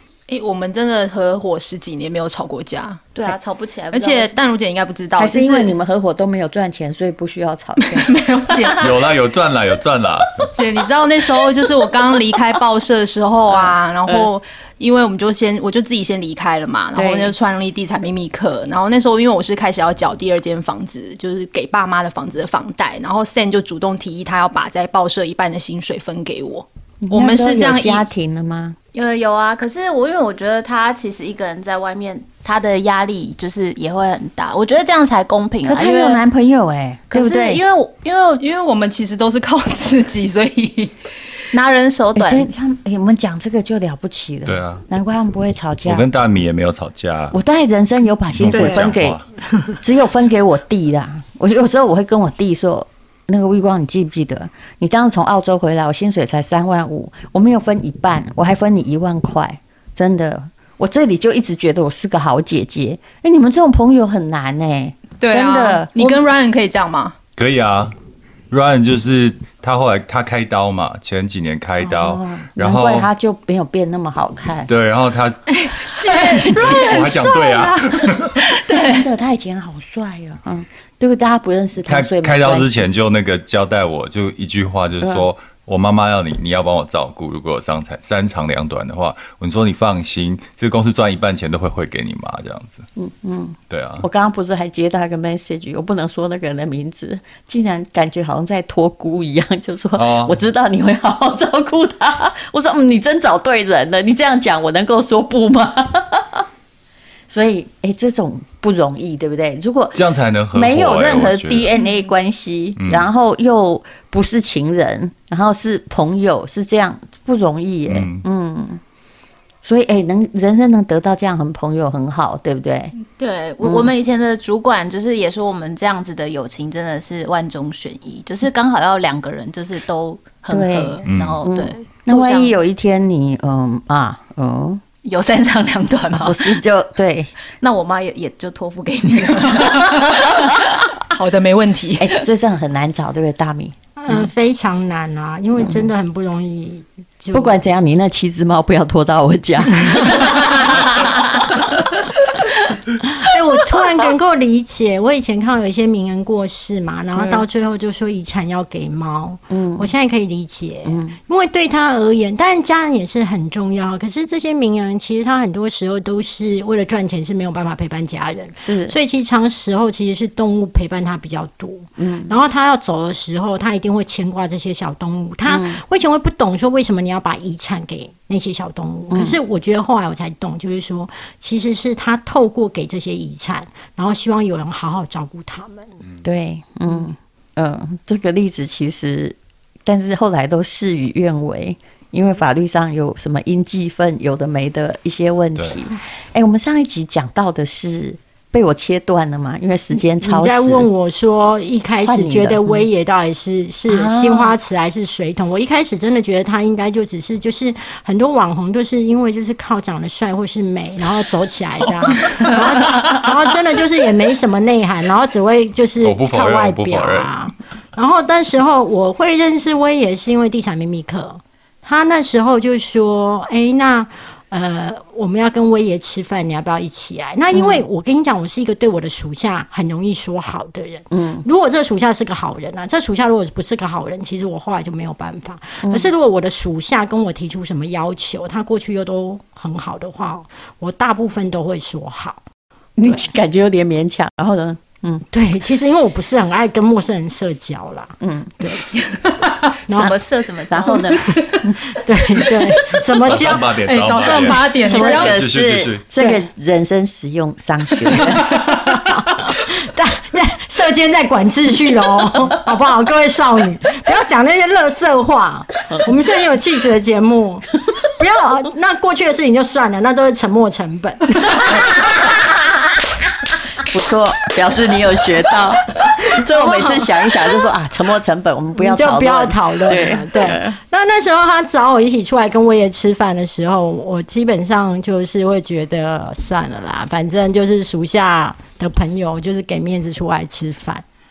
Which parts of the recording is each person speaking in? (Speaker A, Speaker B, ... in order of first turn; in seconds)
Speaker A: 0.3-3.1, 3.9-5.8, 7.8-9.0, 10.5-28.0, 38.4-41.0, 65.2-67.2, 75.5-79.1, 141.1-142.2, 249.2-249.5, 251.1-251.4, 253.8-255.4
Speaker B: 3.1-4.4, 28.9-36.2, 37.1-38.4, 41.5-42.5, 123.0-132.5, 135.0-136.6, 137.6-140.3, 249.9-251.2
Speaker C: 5.2-8.1, 13.5-14.3, 16.9-17.3, 27.0-28.8, 35.6-37.6, 42.1-46.1, 47.3-49.2, 49.8-66.2, 71.8-74.7, 78.7-82.9, 93.0-106.5, 107.3-118.8, 119.6-122.9, 123.6-123.9, 130.5-134.8, 136.1-137.3, 142.0-144.3, 145.6-145.9, 147.3-151.8, 157.2-157.5, 159.5-159.9, 160.9-161.1, 168.6-169.0, 172.0-172.4, 175.5-175.8, 179.1-179.4, 186.2-200.9, 202.1-202.9, 203.9-204.6, 227.5-227.8, 231.1-231.4, 235.8-236.1, 243.0-245.2, 248.2-248.7, 249.9-250.2, 250.7-251.8, 254.7-258.6, 272.0-272.4, 273.8-280.8
Speaker D: 8.8-10.5, 44.5-44.8, 45.9-47.4, 48.3-49.2, 67.4-67.9, 68.5-73.1, 74.7-75.4, 76.2-78.4, 81.9-92.9, 93.7-94.1, 100.0-100.4, 110.0-111.7, 112.8-113.1, 117.9-118.2, 131.1-131.4, 216.0-217.3, 253.1-256.0
Speaker E: 48.5-48.8, 144.0-147.6, 153.0-185.9, 200.2-242.4, 245.3-248.8, 249.9-250.2, 251.9-255.3, 258.2-272.3, 276.4-277.1, 278.8-291.0